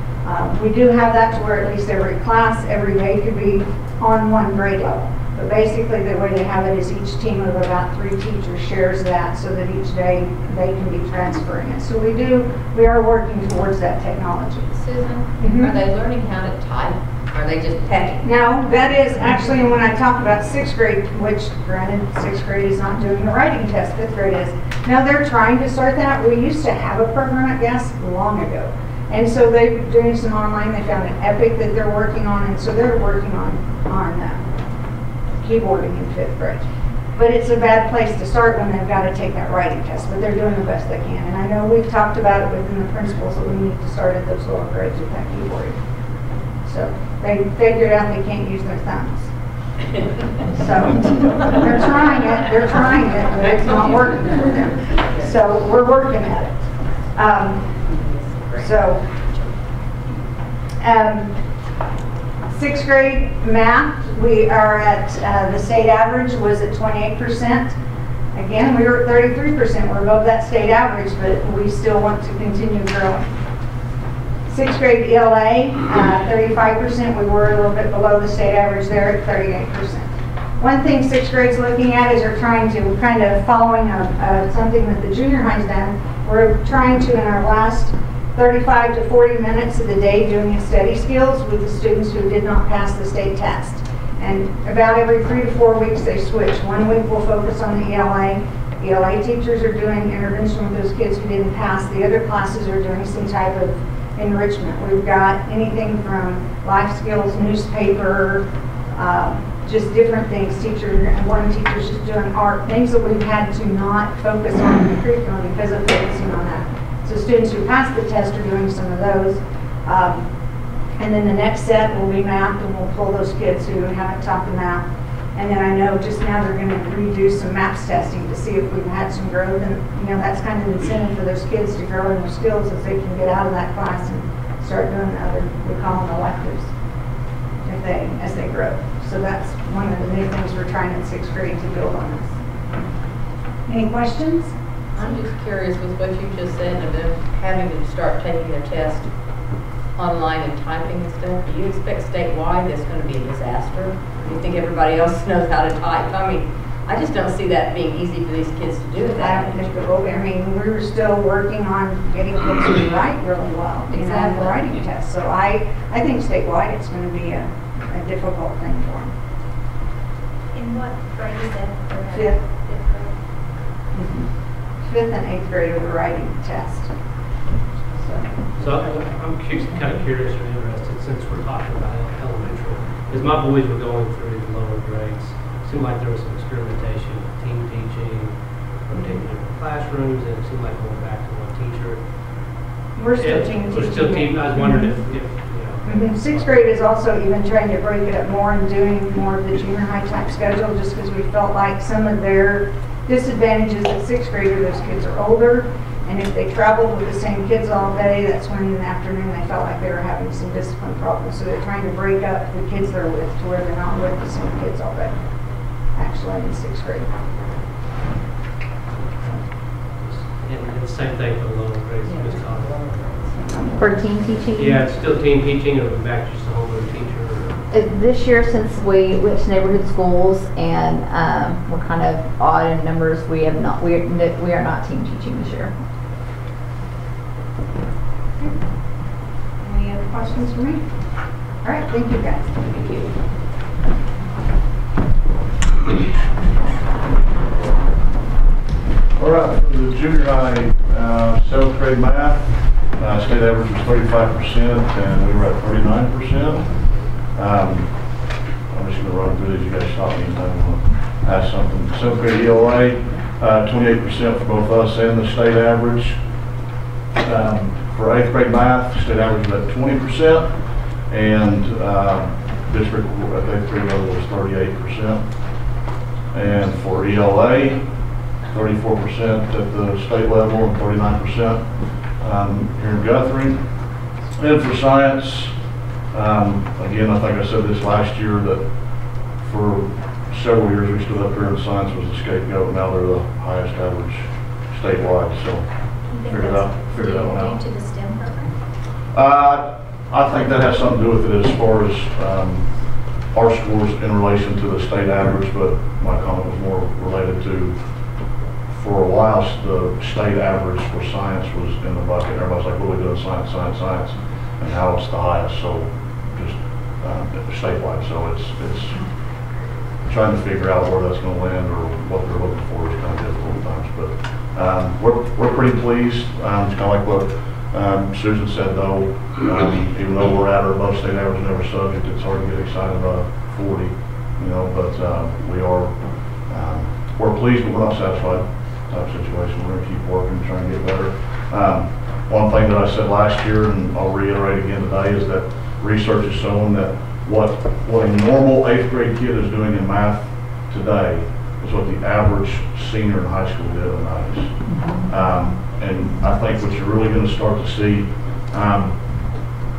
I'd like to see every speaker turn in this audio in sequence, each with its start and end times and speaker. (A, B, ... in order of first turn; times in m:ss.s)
0:00.2-0:14.7 A
0:14.7-0:18.3 B
0:15.4-0:15.7 A
0:18.2-0:34.4 A
0:35.4-0:36.6 A
0:37.2-0:45.8 A
0:46.6-0:49.3 A
0:50.5-0:56.6 A
0:53.5-0:54.0 B
0:54.9-0:55.3 B
0:57.2-0:57.7 A
0:58.0-0:58.8 B
0:58.6-0:59.0 A
1:00.8-1:01.4 A
1:02.5-1:07.8 A
1:08.4-1:13.2 A
1:14.5-1:20.1 A
1:20.6-2:00.3 A
2:01.0-2:16.7 A
2:17.6-2:22.3 A
2:23.7-2:24.6 A
2:24.9-2:29.1 B
2:30.0-2:40.0 B
2:39.1-2:49.1 A
2:43.9-2:44.6 B
2:50.5-2:53.2 C
2:52.1-2:52.4 A
2:54.0-2:54.2 A
2:54.8-2:56.9 A
2:58.0-2:58.8 A
2:58.6-3:12.0 D
3:13.0-3:15.0 A
3:13.2-3:16.7 D
3:15.8-3:35.2 A
3:36.0-3:37.1 A
3:39.9-3:43.2 D
3:43.4-3:43.9 A
3:43.8-3:44.8 E
3:44.6-3:47.6 D
3:47.7-3:55.7 E
3:59.6-4:00.8 A
4:01.6-4:03.1 A
4:09.2-4:26.2 F
4:27.2-4:35.3 F
4:36.3-4:45.6 F
4:46.1-4:48.6 F
4:49.4-4:55.7 F
4:56.1-4:58.5 C
4:56.2-4:57.6 F
4:59.1-5:07.8 F
5:08.7-5:19.0 F
5:20.0-5:59.0 F